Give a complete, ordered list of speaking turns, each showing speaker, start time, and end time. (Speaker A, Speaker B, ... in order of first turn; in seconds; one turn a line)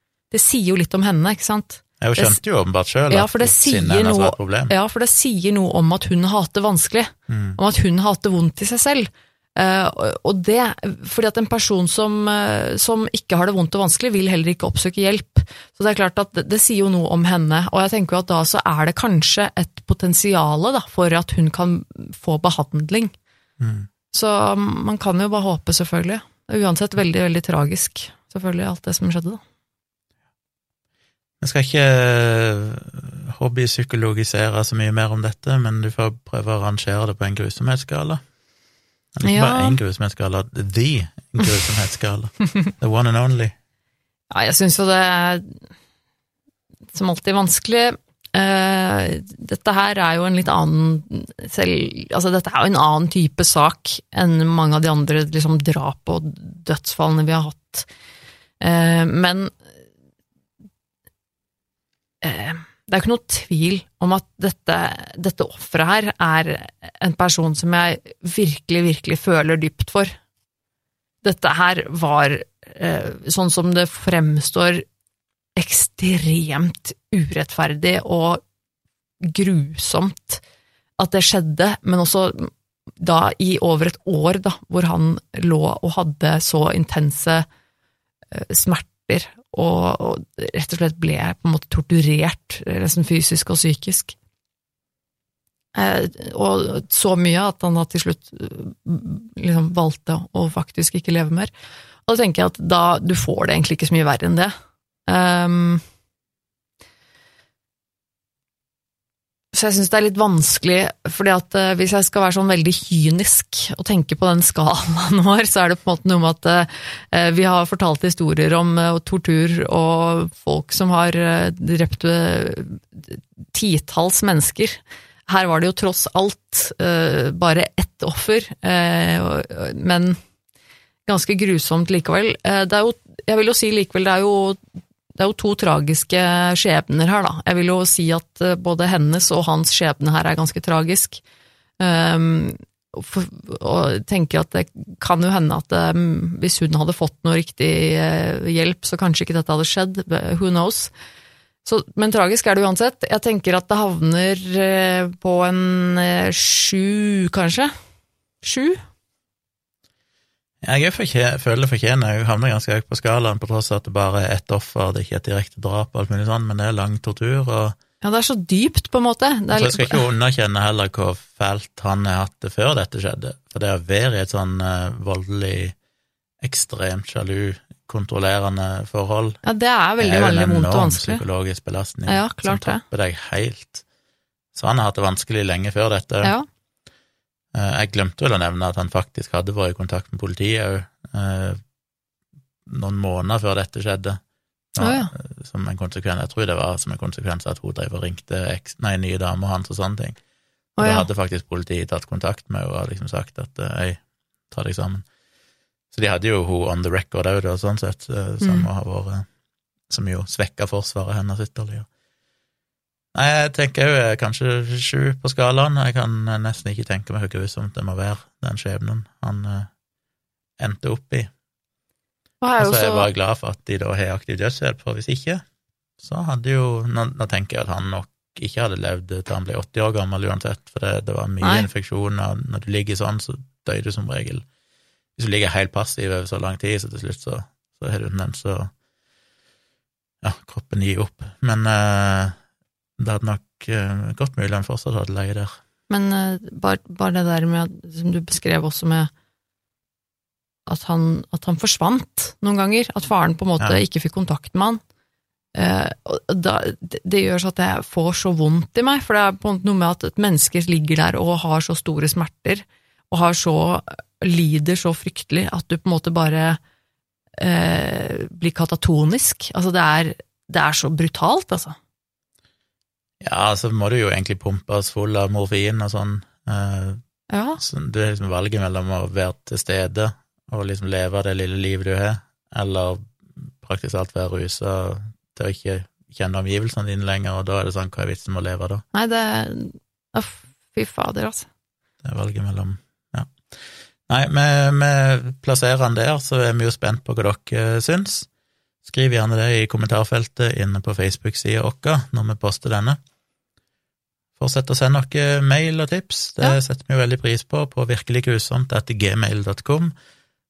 Speaker A: 0.3-2.4
Speaker B: 2.0-4.7
Speaker A: 3.1-23.1
Speaker B: 7.3-7.6
Speaker B: 23.6-23.9
Speaker A: 24.1-29.4
Speaker B: 31.4-38.2
Speaker B: 39.2-43.5
Speaker A: 39.2-39.8
Speaker A: 44.3-45.6
Speaker A: 46.9-57.9
Speaker A: 58.6-59.5
Speaker A: 62.2-70.2
Speaker A: 71.2-74.8
Speaker A: 75.6-78.4
Speaker A: 79.2-80.4
Speaker A: 81.0-87.5
Speaker A: 88.3-94.2
Speaker A: 95.8-101.5
Speaker A: 102.1-104.5
Speaker A: 105.1-105.8
Speaker A: 109.5-130.2
Speaker A: 131.1-134.6
Speaker A: 135.2-141.2
Speaker A: 141.8-150.9
Speaker A: 151.7-157.7
Speaker A: 158.4-158.8
Speaker B: 160.6-167.8
Speaker A: 168.0-170.0
Speaker B: 169.5-175.8
Speaker B: 176.4-179.4
Speaker A: 179.4-181.2
Speaker B: 180.0-183.8
Speaker A: 182.1-182.8
Speaker B: 184.5-186.3
Speaker B: 187.5-191.6
Speaker B: 192.7-194.2
Speaker B: 194.8-200.2
Speaker A: 194.8-195.1
Speaker A: 200.8-201.1
Speaker B: 200.8-205.1
Speaker B: 205.9-209.3
Speaker A: 208.4-208.7
Speaker B: 209.9-211.9
Speaker B: 213.1-219.7
Speaker B: 220.6-221.3
Speaker A: 222.4-223.1
Speaker B: 222.6-225.4
Speaker B: 226.0-234.5
Speaker A: 231.4-231.7
Speaker B: 235.2-238.7
Speaker B: 240.2-242.4
Speaker B: 243.0-245.6
Speaker A: 245.9-249.1
Speaker A: 250.7-254.8
Speaker A: 255.6-266.6
Speaker A: 267.4-271.8
Speaker B: 273.2-277.0
Speaker A: 277.3-277.6
Speaker B: 277.6-288.8
Speaker A: 288.9-291.5
Speaker B: 292.0-298.3
Speaker B: 298.9-303.0
Speaker B: 304.4-309.9